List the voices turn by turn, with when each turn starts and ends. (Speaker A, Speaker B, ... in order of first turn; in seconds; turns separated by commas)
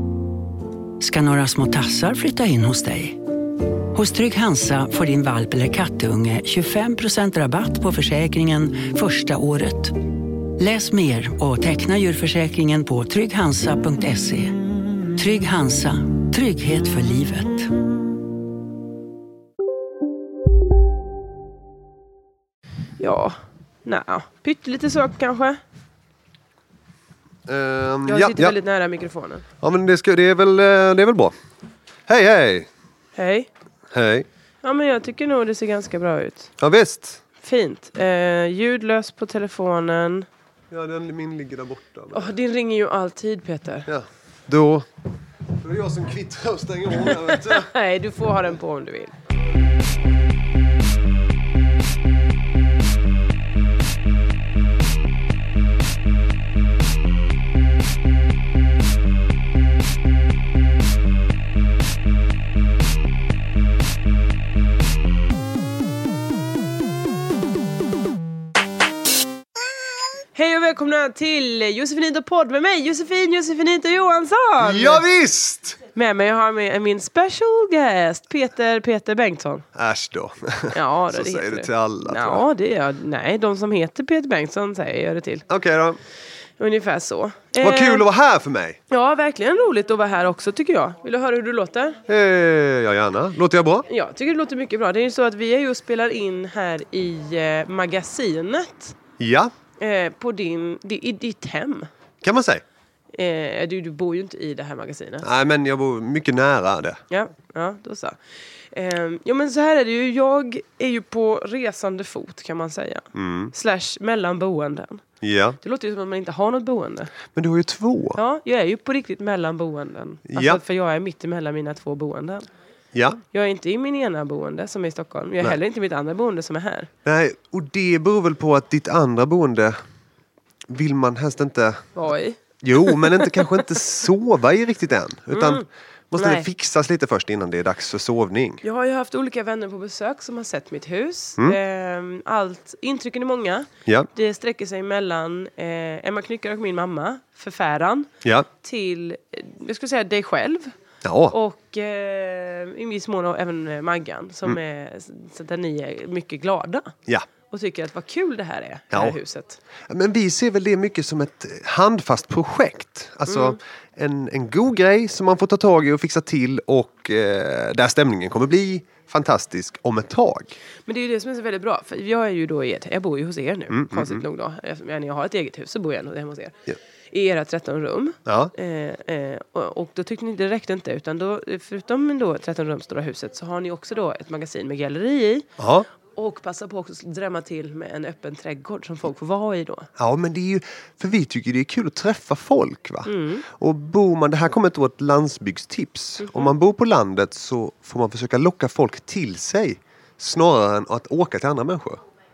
Speaker A: 1.0-3.2, Speaker A: 3.9-14.6, Speaker A: 15.1-17.7, Speaker B: 23.0-25.6, Speaker C: 27.4-28.6, Speaker B: 28.1-29.4, Speaker C: 29.6-31.3, Speaker C: 32.1-32.7, Speaker B: 33.1-33.5, Speaker C: 33.9-34.3, Speaker B: 34.6-36.5, Speaker C: 36.6-37.2, Speaker B: 37.4-40.3, Speaker C: 40.7-42.4, Speaker B: 42.1-43.9, Speaker C: 43.9-44.9, Speaker C: 45.6-47.7, Speaker B: 47.0-49.1, Speaker B: 70.3-75.0, Speaker C: 74.6-75.8, Speaker B: 75.9-79.7, Speaker C: 79.7-82.4, Speaker B: 80.7-85.5, Speaker C: 85.5-86.0, Speaker B: 86.6-88.0, Speaker C: 87.5-88.8, Speaker B: 88.9-92.0, Speaker C: 92.1-93.9, Speaker B: 93.9-99.0, Speaker C: 99.2-99.5, Speaker B: 99.8-101.9, Speaker C: 102.2-102.6, Speaker B: 103.1-105.2, Speaker C: 105.2-107.0, Speaker B: 107.1-108.2, Speaker B: 108.7-115.0, Speaker C: 113.1-113.5, Speaker C: 115.2-115.6, Speaker B: 115.6-117.1, Speaker C: 117.3-118.2, Speaker B: 118.1-122.5, Speaker C: 120.3-120.6, Speaker C: 122.9-123.2, Speaker B: 123.3-126.9, Speaker C: 127.0-129.8, Speaker C: 130.7-131.9, Speaker B: 131.9-133.5, Speaker C: 132.6-138.6, Speaker B: 135.3-136.5, Speaker B: 138.6-148.1, Speaker B: 148.6-150.7, Speaker C: 151.0-151.3, Speaker B: 151.3-156.9, Speaker B: 157.5-159.6, Speaker C: 158.9-159.2, Speaker C: 159.8-170.6, Speaker B: 163.3-163.6, Speaker B: 170.9-176.6, Speaker C: 173.7-174.2, Speaker B: 177.1-185.5, Speaker C: 178.2-178.5, Speaker C: 185.6-185.9, Speaker B: 186.1-189.9, Speaker C: 190.0-202.0, Speaker B: 193.1-193.4, Speaker B: 196.2-196.5